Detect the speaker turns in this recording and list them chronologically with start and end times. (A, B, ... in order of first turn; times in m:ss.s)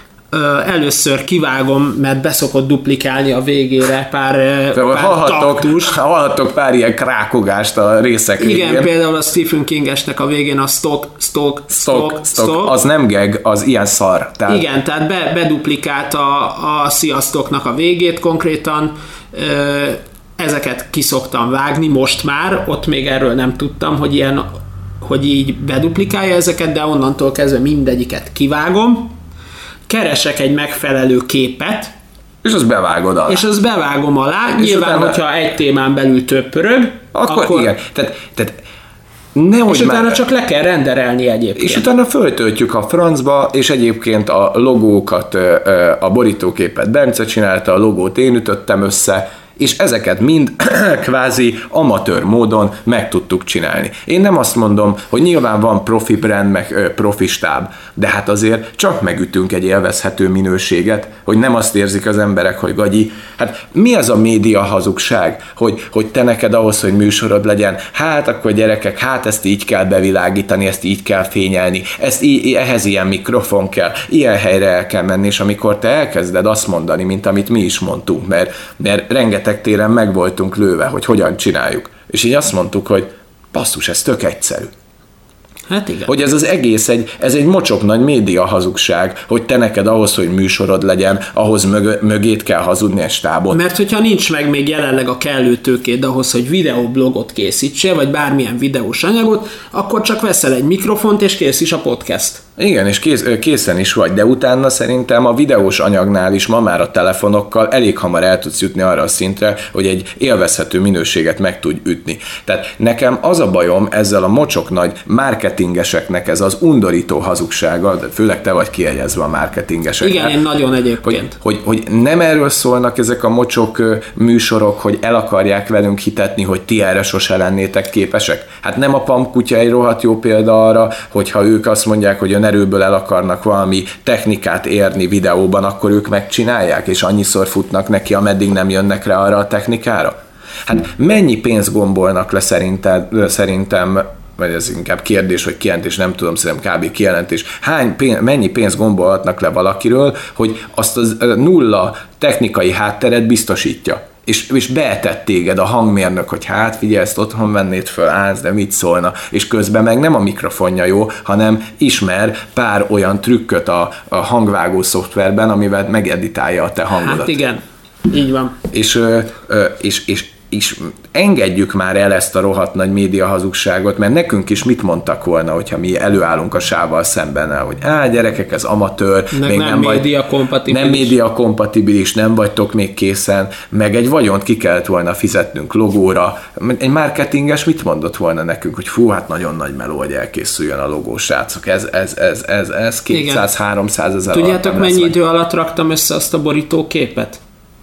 0:00.3-0:05.9 A
0:04.7-0:08.9 B
0:08.4-0:12.8 A
0:11.7-0:14.6 B
0:14.5-0:24.5 A
0:25.0-0:29.1 A
0:29.9-0:31.9 A
0:32.4-0:33.4 B
0:33.3-0:37.7 A
0:34.6-0:35.2 B
0:37.1-0:38.6 B
0:39.3-0:40.2 B
0:39.7-0:41.9 A
0:41.6-1:24.7 B
1:25.7-1:26.1 A
1:26.0-1:33.6 B
1:33.5-1:42.4 A
1:42.6-2:00.3 B
2:00.0-2:01.4 A
2:01.0-2:20.1 B
2:20.6-2:47.3 B
2:46.9-2:48.6 A
2:48.7-3:00.0 B
2:59.3-3:01.1 A
3:00.7-3:15.1 B
3:13.1-3:13.5 A
3:14.3-3:17.4 A